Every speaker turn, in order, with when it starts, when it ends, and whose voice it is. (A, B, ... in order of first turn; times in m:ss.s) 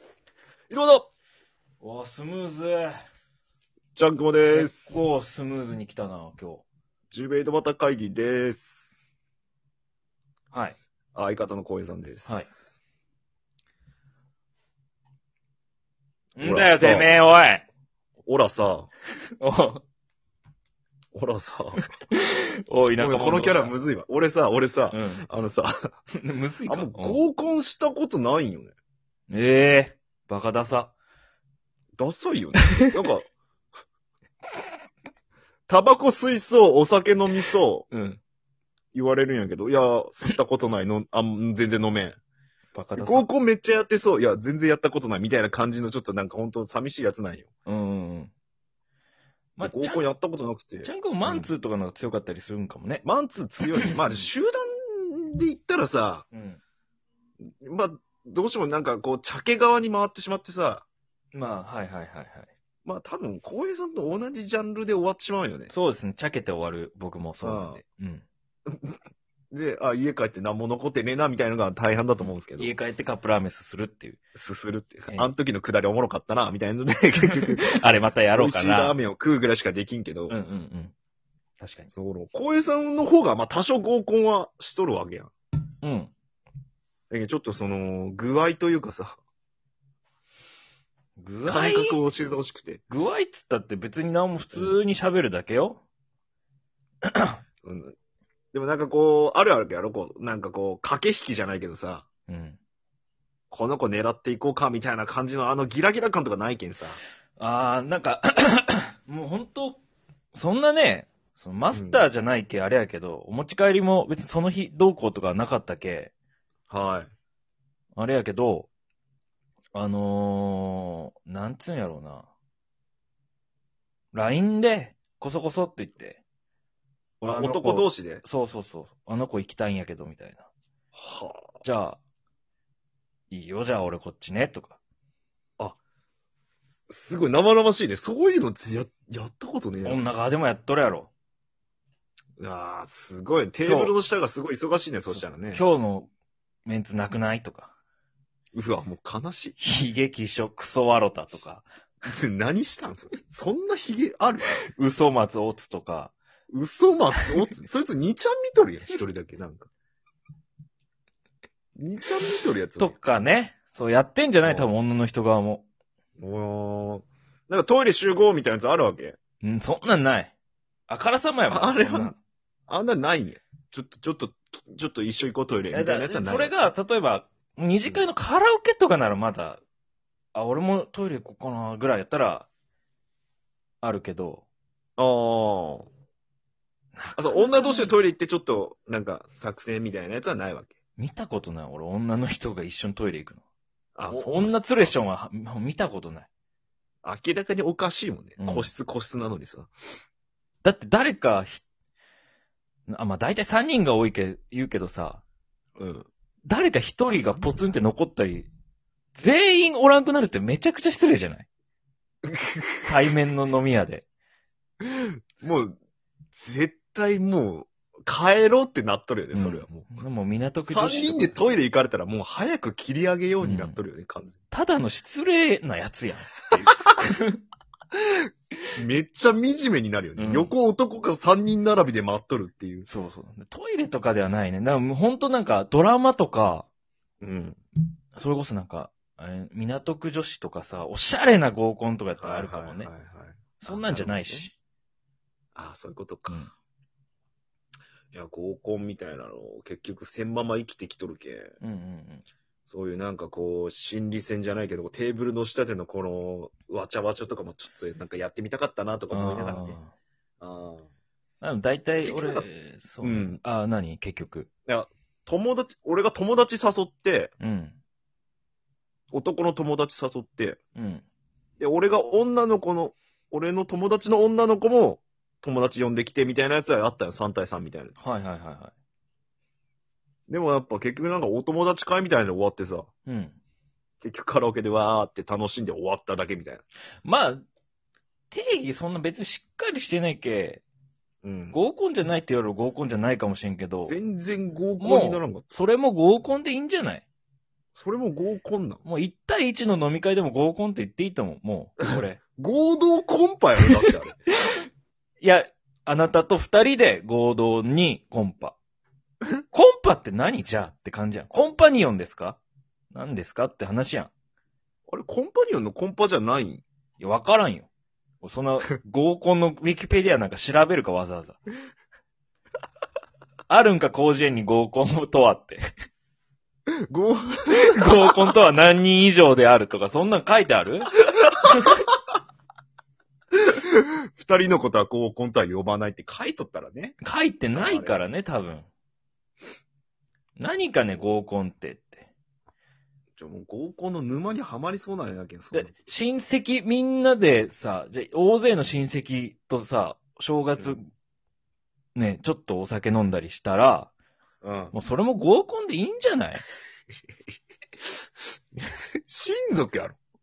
0:00.7-0:01.1 A
0:01.8-0:03.0 B
0:04.0-0:05.0 A
0:04.5-0:06.6 B
0:07.1-0:09.0 A
0:10.5-0:10.8 B
0:11.2-0:12.5 A
0:16.4-0:17.6 B
0:16.4-0:17.1 A
0:18.3-0:18.9 A
0:19.4-0:19.8 B
0:21.2-0:21.9 A
0:22.1-0:23.7 B
0:23.0-0:25.7 A
0:24.9-0:25.2 B
0:26.1-0:27.2 B
0:26.7-0:28.7 A
0:29.3-0:30.9 B
0:32.0-0:33.3 A
0:35.7-0:37.9 A
0:37.9-0:38.2 B
0:38.9-0:42.2 A
0:42.8-0:43.3 B
0:43.0-0:47.5 A
0:47.7-0:48.3 B
0:49.6-0:50.0 B
0:49.6-0:51.5 A
0:50.8-0:53.0 B
0:53.0-0:56.3 A
0:53.8-0:54.2 B
0:56.3-0:56.6 B
0:57.6-1:00.8 A
1:01.3-1:02.5 B
1:02.8-1:05.7 A
1:05.7-1:08.2 B
1:07.4-1:07.8 A
1:08.7-1:09.0 A
1:09.5-1:12.7 A
1:12.2-1:14.2 B
1:14.4-1:17.8 A
1:17.3-1:19.0 B
1:18.4-1:20.4 A
1:20.3-1:20.9 B
1:21.6-1:21.9 B
1:21.9-1:25.3 A
1:25.8-1:26.1 B
1:27.1-1:29.2 A
1:31.2-1:32.0 B
1:31.5-1:32.8 A
1:32.9-1:35.8 B
1:34.5-1:34.8 A
1:37.1-1:37.4 B
1:37.6-1:37.9 A
1:38.5-1:42.1 A
1:42.3-1:42.6 B
1:43.5-1:47.0 A
1:47.4-1:49.8 B
1:50.3-1:56.1 B
1:51.7-1:52.1 A
1:56.7-1:57.1 A
1:58.0-1:58.7 B
1:59.7-2:02.3 B
2:04.1-2:06.2 B
2:07.2-2:10.5 B
2:07.2-2:08.2 A
2:10.9-2:11.5 A
2:11.6-2:12.0 B
2:13.3-2:14.8 B
2:16.9-2:20.0 A
2:19.8-2:21.1 B
2:22.4-2:25.6 A
2:23.6-2:24.0 B
2:25.1-2:26.1 B
2:26.7-2:27.7 B
2:28.5-2:29.6 A
2:29.6-2:31.7 B
2:32.1-2:34.6 A
2:34.8-2:36.1 B
2:36.5-2:39.7 A
2:41.8-2:43.0 A
2:42.8-2:45.6 B
2:44.4-2:44.7 A
2:46.2-2:49.2 A
2:49.4-2:50.3 B
2:50.9-2:52.2 B
2:51.5-2:52.1 A
2:52.7-2:56.6 A
2:55.7-2:59.6 B
3:00.3-3:02.5 B
3:03.8-3:04.4 B
3:05.0-3:05.9 A
3:07.0-3:08.0 B
3:07.2-3:10.8 A
3:11.0-3:13.4 B
3:14.0-3:15.0 A
3:14.1-3:16.3 B
3:17.0-3:19.7 A
3:18.4-3:18.7 B
3:20.6-3:21.6 B
3:22.9-3:25.2 B
3:25.8-3:26.1 A
3:26.5-3:28.5 B
3:27.1-3:27.7 A
3:29.2-3:31.5 B
3:32.2-3:32.9 A
3:32.8-3:34.0 B
3:34.8-3:35.8 A
3:36.3-3:40.0 A
3:39.3-3:41.4 B
3:40.7-3:44.4 A
3:43.4-3:43.8 B
3:44.5-3:47.4 B
3:48.8-3:52.9 A
3:50.2-3:50.5 B
3:52.9-3:56.7 B
3:57.2-3:57.6 A
3:58.2-4:02.9 B
4:02.2-4:04.5 A
4:03.6-4:04.5 B
4:05.6-4:06.5 A
4:08.1-4:11.5 A
4:11.6-4:12.3 B
4:12.7-4:19.8 A
4:19.1-4:19.9 B
4:20.4-4:20.9 A
4:21.4-4:24.5 B
4:22.0-4:22.4 A
4:23.0-4:23.4 A
4:24.7-4:27.3 A
4:27.4-4:27.8 B
4:29.1-4:30.6 A
4:30.8-4:31.0 B
4:31.6-4:38.0 A
4:38.0-4:38.7 B
4:40.3-4:42.9 A
4:43.1-4:43.4 B
4:44.0-4:46.6 A
4:47.0-4:47.4 B
4:48.3-4:50.6 B
4:51.2-4:51.6 A
4:51.5-4:54.0 B
4:53.8-4:55.4 A
4:54.8-4:57.0 B
4:57.8-4:58.8 A
4:58.8-5:02.2 B
5:02.4-5:04.3 A
5:05.2-5:08.6 B
5:09.5-5:12.4 B
5:12.9-5:14.1 B
5:14.9-5:16.6 A
5:17.0-5:17.7 B
5:18.2-5:21.4 B
5:23.5-5:25.7 B
5:26.9-5:28.3 A
5:27.5-5:30.9 B
5:31.4-5:31.8 B
5:33.3-5:37.0 A
5:37.0-5:38.7 B
5:37.5-5:38.0 A
5:40.4-5:42.1 B
5:43.2-5:45.7 A
5:45.5-5:50.8 B
5:52.0-5:53.9 B
5:54.4-5:54.8 A
5:54.7-5:56.4 B
5:58.6-6:00.0 A